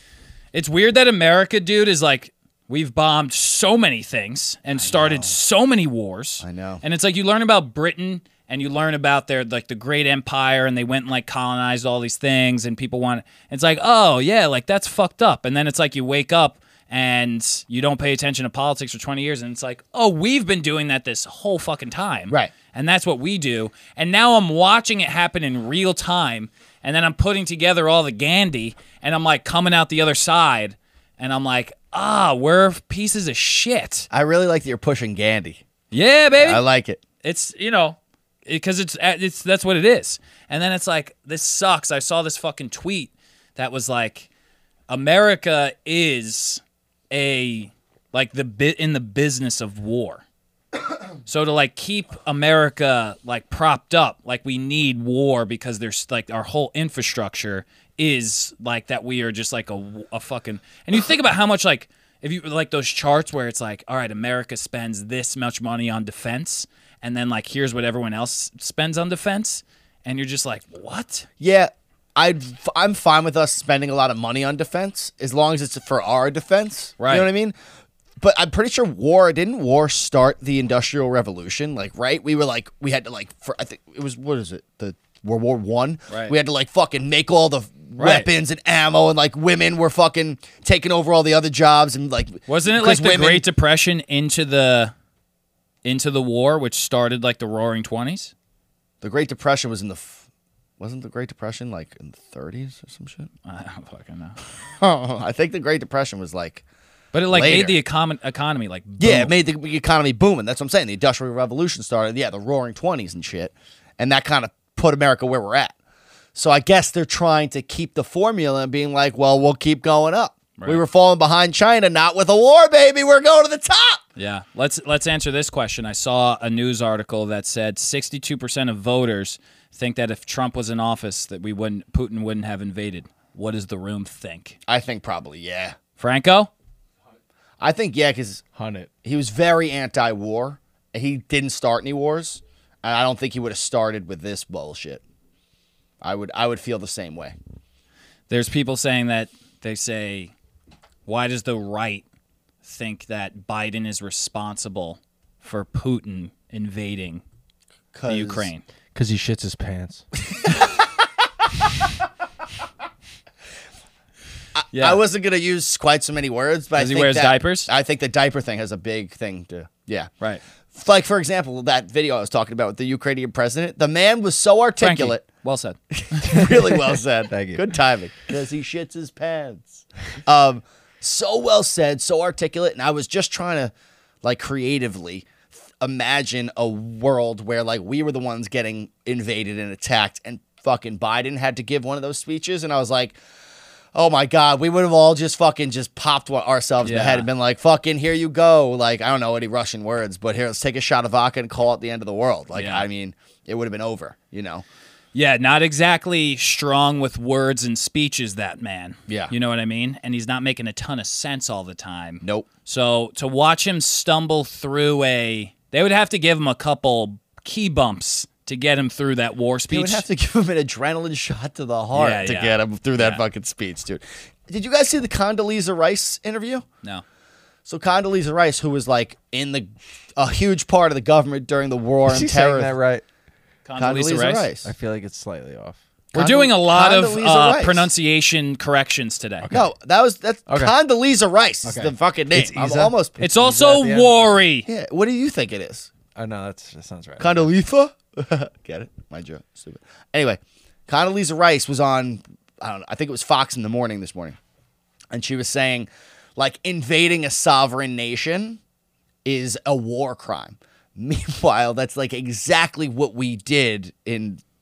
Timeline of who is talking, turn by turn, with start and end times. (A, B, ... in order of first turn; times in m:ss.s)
0:00.5-0:34.1 A
0:04.8-0:05.4 B
0:06.4-0:06.8 B
0:34.1-0:35.6 B
0:35.9-0:36.6 A
0:36.4-0:37.0 B
0:37.2-0:44.3 A
0:44.9-0:50.2 A
0:51.3-1:11.3 A
1:11.4-1:17.6 B
1:17.0-1:17.3 A
1:18.2-1:33.5 B
1:28.0-1:28.3 A
1:32.5-1:34.9 A
1:35.8-1:38.3 A
1:39.0-1:40.2 B
1:40.8-1:43.3 B
1:43.4-1:44.4 A
1:44.8-1:46.6 B
1:47.1-1:49.3 A
1:47.3-1:47.8 B
1:49.0-1:55.8 B
1:56.4-2:04.0 B
2:04.2-2:14.6 A
2:14.7-2:15.8 B
2:16.0-2:16.5 A
2:17.6-2:18.4 B
2:18.5-2:18.9 C
2:19.0-2:25.0 B
2:26.0-2:27.4 B
2:28.3-2:30.3 A
2:31.1-2:32.0 A
2:32.6-2:37.2 A
2:37.9-2:38.5 B
2:38.1-2:38.6 A
2:38.9-2:40.0 C
2:44.6-2:50.1 B
2:44.7-2:45.0 A
2:46.8-2:47.7 A
2:50.7-2:55.2 B
2:54.8-2:56.6 A
2:56.0-3:13.2 B
2:57.3-2:57.7 C
3:13.9-3:24.6 B
3:16.8-3:17.3 A
3:22.5-3:22.8 A
3:25.1-3:40.0 A
3:32.2-3:32.5 B
3:39.7-3:46.6 B
3:41.9-3:43.2 A
3:47.7-3:52.7 B
3:52.1-3:53.0 C
3:53.7-3:54.5 A
3:53.8-3:54.7 B
3:54.6-3:55.8 C
3:56.1-3:57.9 B
3:56.2-3:59.5 A
3:59.4-3:59.7 C
3:59.5-4:03.2 B
4:00.5-4:00.7 C
4:01.6-4:04.2 C
4:02.4-4:04.7 A
4:04.7-4:05.9 B
4:06.1-4:07.5 C
4:07.2-4:14.4 B
4:15.1-4:18.6 B
4:19.2-4:24.4 B